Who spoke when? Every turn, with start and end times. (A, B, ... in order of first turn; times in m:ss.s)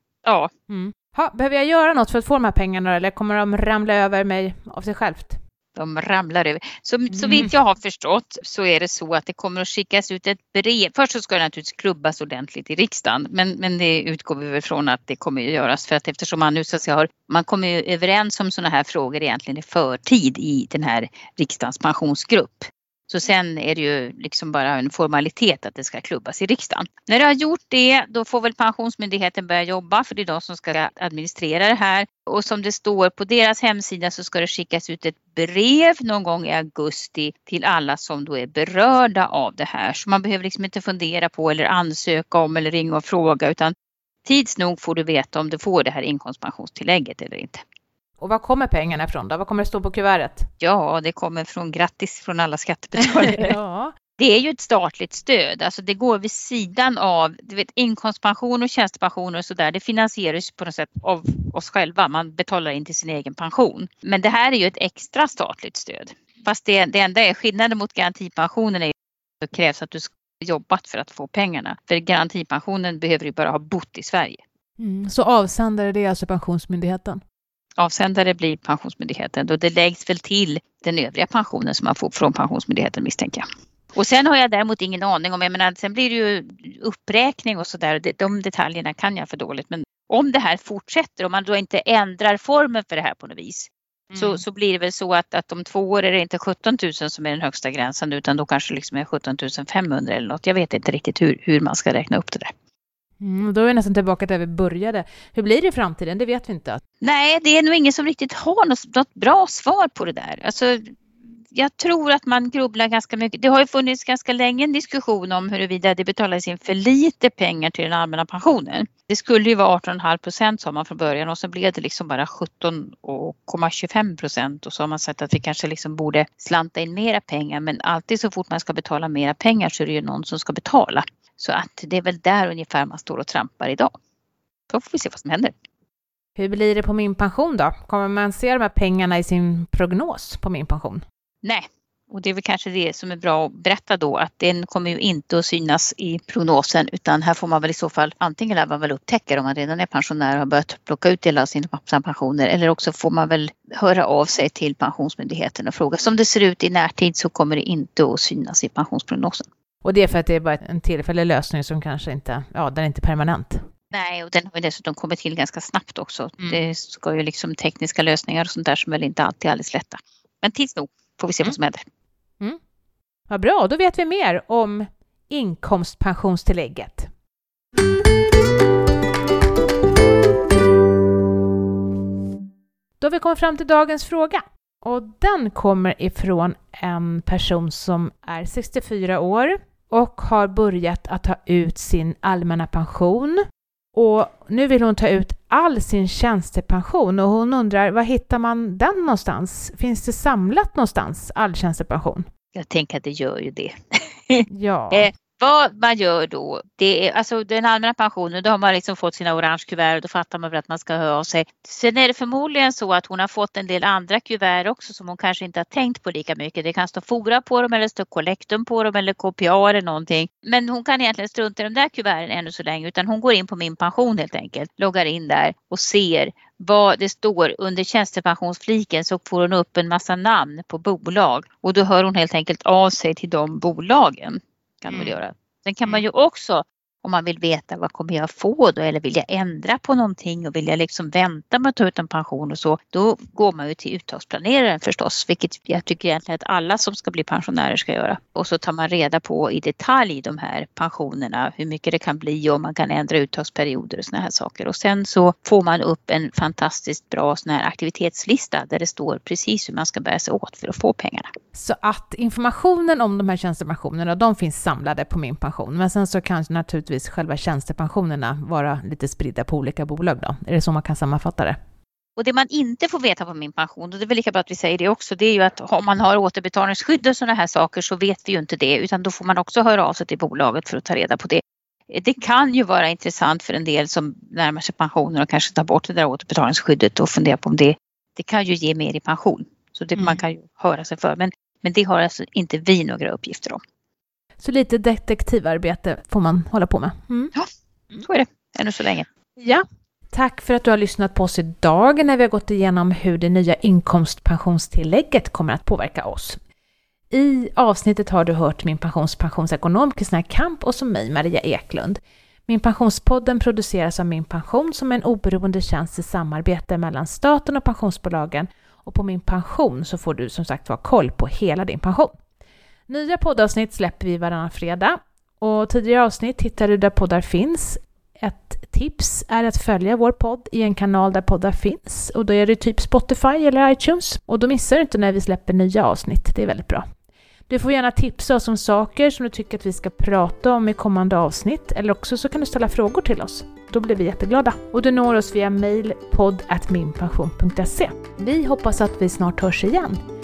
0:00.2-0:00.5 A
0:00.7-0:05.4 B
0:05.8-0:43.7 A
0:07.1-0:07.6 B
0:44.2-0:47.6 A
0:48.2-0:50.5 B
0:50.6-0:53.6 A
0:53.0-0:53.9 B
0:54.2-1:14.4 A
1:14.8-1:17.2 B
1:17.8-1:42.5 A
1:34.1-1:34.4 B
1:43.2-1:46.8 B
1:47.0-1:50.9 A
1:51.5-2:13.9 A
2:14.7-2:15.5 A
2:16.4-2:21.0 B
2:21.4-2:39.5 A
2:39.8-2:43.6 B
2:43.9-2:51.8 A
2:53.3-2:57.1 B
3:03.0-3:13.4 B
3:13.9-3:22.2 B
3:22.6-3:23.7 A
3:24.3-4:21.3 A
3:24.5-3:25.1 B
4:21.5-4:31.6 B
4:32.2-4:53.6 A
4:54.4-4:57.3 B
4:57.4-4:59.1 A
4:59.4-5:06.4 B
5:07.1-5:22.1 B
5:22.9-5:36.8 B
5:37.5-5:50.0 B